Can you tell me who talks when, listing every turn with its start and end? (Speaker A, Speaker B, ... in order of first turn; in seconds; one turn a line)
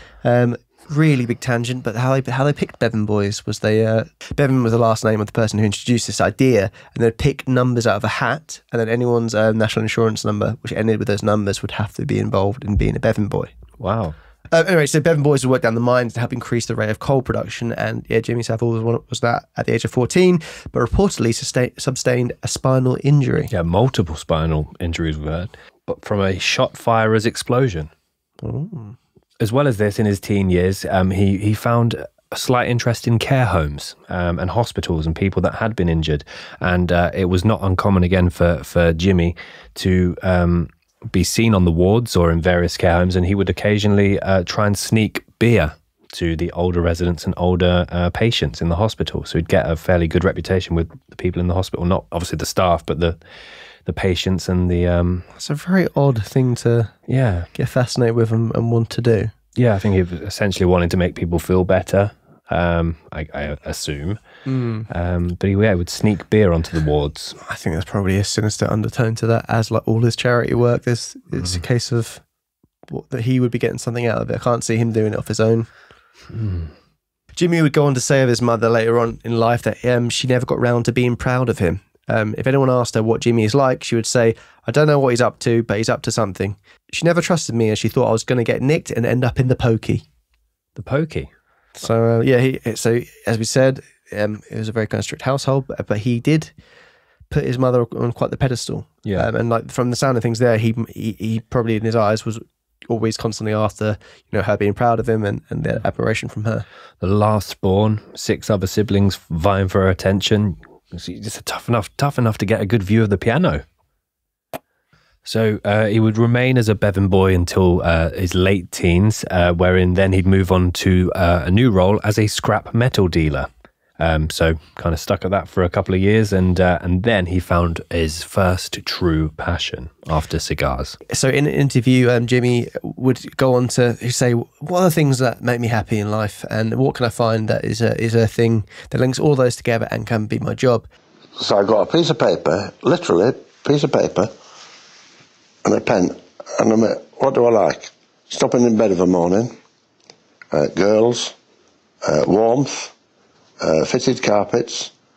Speaker A: 0.2-13.5
Speaker B: 13.8-14.2
Speaker A: 14.5-23.5
Speaker B: 23.5-27.9
Speaker A: 28.4-29.0
Speaker B: 29.4-53.2
Speaker B: 53.9-55.3
Speaker A: 55.4-56.9
Speaker B: 57.1-57.5
Speaker A: 57.5-59.3
Speaker B: 59.5-64.2
Speaker A: 64.5-64.9
Speaker B: 64.9-67.4
Speaker A: 67.4-72.2
Speaker A: 72.9-75.7
Speaker B: 76.3-76.7
Speaker A: 77.3-90.0
Speaker B: 90.8-91.3
Speaker A: 91.8-96.5
Speaker A: 97.3-106.7
Speaker B: 107.0-113.6
Speaker B: 115.2-131.0
Speaker A: 131.1-140.9
Speaker C: 141.4-144.3
Speaker C: 145.7-149.5
Speaker C: 150.5-151.3
Speaker C: 152.0-152.9
Speaker C: 153.6-154.9